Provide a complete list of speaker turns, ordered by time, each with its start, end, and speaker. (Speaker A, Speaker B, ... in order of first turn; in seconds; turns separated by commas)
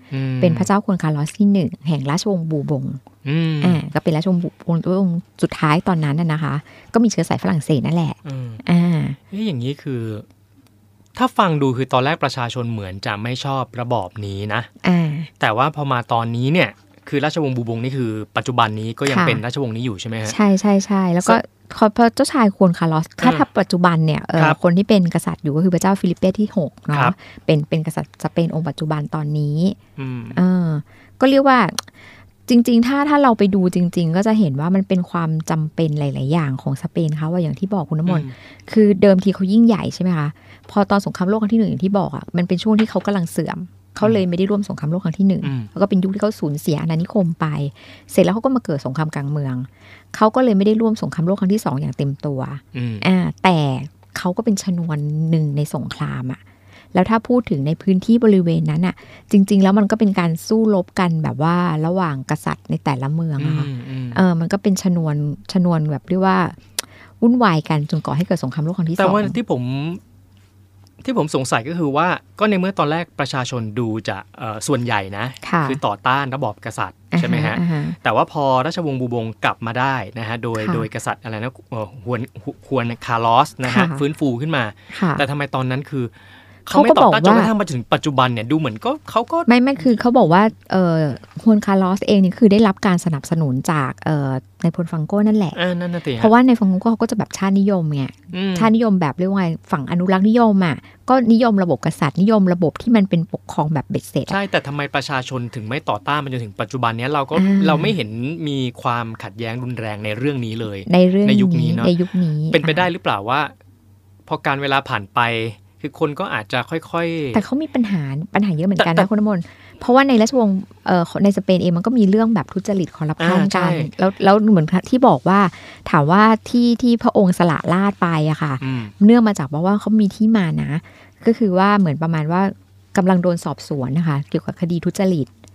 Speaker A: 0.1-0.7, Speaker B: 0.4-3.0, Speaker A: 3.2-3.8, Speaker B: 3.6-9.2, Speaker A: 8.2-8.6, Speaker A: 9.3-10.2, Speaker A: 11.2-14.7, Speaker B: 14.8-15.3, Speaker A: 15.4-20.4, Speaker B: 19.1-19.4, Speaker B: 20.2-29.8, Speaker A: 23.2-23.5, Speaker A: 30.0-30.4, Speaker B: 30.3-31.9, Speaker B: 32.5-56.4, Speaker A: 38.1-38.3, Speaker A: 45.4-45.7, Speaker A: 52.7-53.1, Speaker B: 56.9-69.4, Speaker A: 63.4-64.2, Speaker A: 68.9-70.0, Speaker A: 71.0-86.1, Speaker B: 75.4-75.8, Speaker B: 77.1-78.0, Speaker B: 80.6-80.9, Speaker B: 83.6-84.0, Speaker B: 84.9-85.2, Speaker A: 86.7-90.0, Speaker B: 86.7-87.5, Speaker B: 89.5-95.6, Speaker A: 95.5-96.3, Speaker B: 96.2-104.4, Speaker A: 98.3-98.7, Speaker A: 104.3-111.9, Speaker B: 107.3-108.0, Speaker B: 110.9-112.9, Speaker A: 112.5-113.5, Speaker A: 114.3-117.4, Speaker B: 117.3-135.3, Speaker A: 118.8-119.1, Speaker A: 123.2-123.9, Speaker A: 128.6-128.9